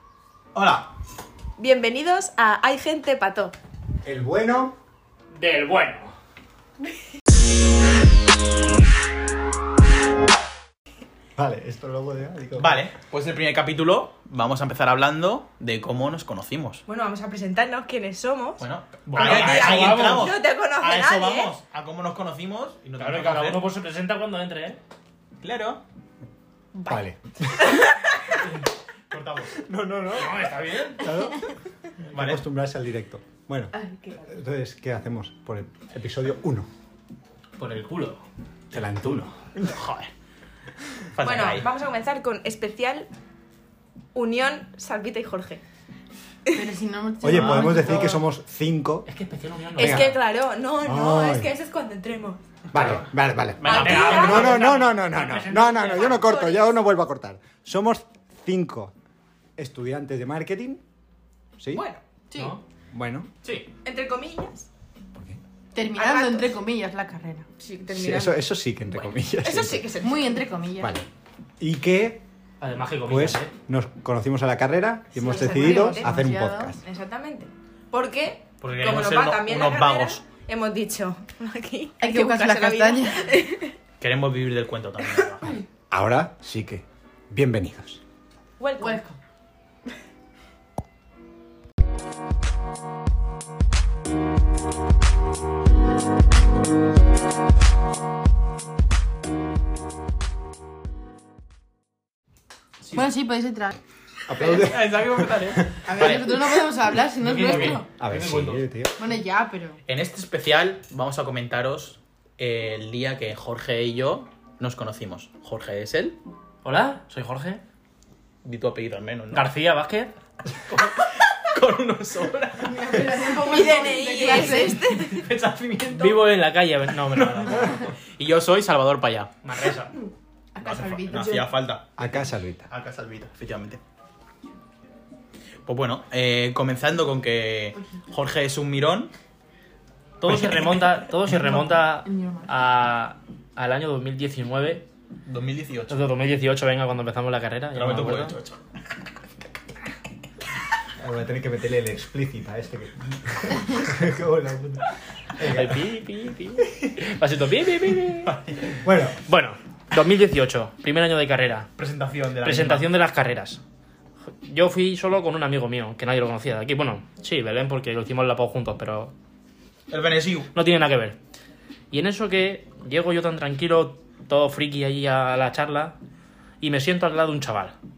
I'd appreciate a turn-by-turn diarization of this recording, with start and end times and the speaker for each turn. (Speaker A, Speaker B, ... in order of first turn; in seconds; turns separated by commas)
Speaker A: 0.5-0.9, Speaker B: 1.6-3.5, Speaker C: 4.0-4.8, Speaker D: 5.3-6.1, Speaker C: 11.4-12.8, Speaker A: 12.6-16.8, Speaker B: 16.9-18.6, Speaker A: 18.6-23.6, Speaker D: 19.1-20.3, Speaker B: 19.2-21.5, Speaker D: 23.0-24.8, Speaker A: 25.4-25.8, Speaker B: 26.7-27.0, Speaker C: 26.9-27.2, Speaker B: 27.6-28.3, Speaker A: 29.1-29.6, Speaker C: 29.6-30.4, Speaker D: 30.1-31.1, Speaker C: 31.0-31.5, Speaker C: 32.1-36.7, Speaker A: 32.1-32.4, Speaker B: 33.8-34.2, Speaker D: 37.6-38.2, Speaker C: 38.7-39.7, Speaker A: 39.6-40.1, Speaker A: 41.1-41.7, Speaker B: 41.2-43.1, Speaker B: 44.1-45.6, Speaker E: 46.5-48.2, Speaker C: 47.2-49.1, Speaker D: 49.0-50.1, Speaker B: 49.8-52.4, Speaker C: 49.8-50.1, Speaker C: 50.8-51.5, Speaker C: 52.7-58.9, Speaker A: 52.7-54.8, Speaker B: 53.6-54.5, Speaker D: 53.7-56.3, Speaker B: 56.1-56.8, Speaker C: 59.6-60.8, Speaker B: 61.7-62.0, Speaker E: 62.3-62.5, Speaker D: 62.3-62.6, Speaker C: 62.9-63.3, Speaker B: 63.8-64.7, Speaker C: 65.1-65.4, Speaker E: 65.7-67.5, Speaker B: 65.9-66.6, Speaker B: 67.6-70.5, Speaker C: 67.9-69.8, Speaker E: 70.0-71.0, Speaker C: 70.8-71.0, Speaker C: 71.6-72.2, Speaker D: 72.6-73.5, Speaker C: 73.0-76.8, Speaker B: 75.1-76.2, Speaker E: 75.2-76.7, Speaker B: 76.8-83.8, Speaker A: 78.6-80.2, Speaker E: 82.0-83.2, Speaker A: 84.0-85.5, Speaker C: 85.9-88.0, Speaker B: 88.6-89.0, Speaker E: 88.8-89.2, Speaker A: 102.8-103.1, Speaker E: 102.9-103.7, Speaker C: 104.3-105.7, Speaker A: 104.4-106.6, Speaker E: 105.8-107.8, Speaker D: 107.2-108.6, Speaker A: 107.5-107.8, Speaker C: 107.9-109.0, Speaker E: 109.0-109.8, Speaker A: 109.9-116.2, Speaker D: 116.6-117.6, Speaker A: 118.4-119.5, Speaker D: 119.3-120.1, Speaker A: 120.7-123.3, Speaker E: 122.6-124.9, Speaker B: 123.4-125.2, Speaker A: 124.5-126.1, Speaker D: 125.9-127.9, Speaker A: 127.0-129.3, Speaker D: 129.4-129.9, Speaker E: 130.5-131.5, Speaker A: 130.6-131.9, Speaker C: 132.0-132.7, Speaker A: 132.7-133.8, Speaker A: 135.7-139.1, Speaker D: 140.2-144.8, Speaker A: 140.3-140.7, Speaker E: 142.0-142.5, Speaker A: 145.2-146.0, Speaker D: 145.9-148.3, Speaker A: 147.7-148.6, Speaker C: 151.0-155.8, Speaker D: 155.4-158.3, Speaker A: 158.2-158.8, Speaker C: 158.8-159.2, Speaker D: 159.2-161.7, Speaker A: 161.8-162.9, Speaker D: 162.4-163.6, Speaker D: 164.4-169.1, Speaker A: 169.9-170.5, Speaker D: 170.5-171.2, Speaker D: 171.9-175.9, Speaker D: 176.6-177.7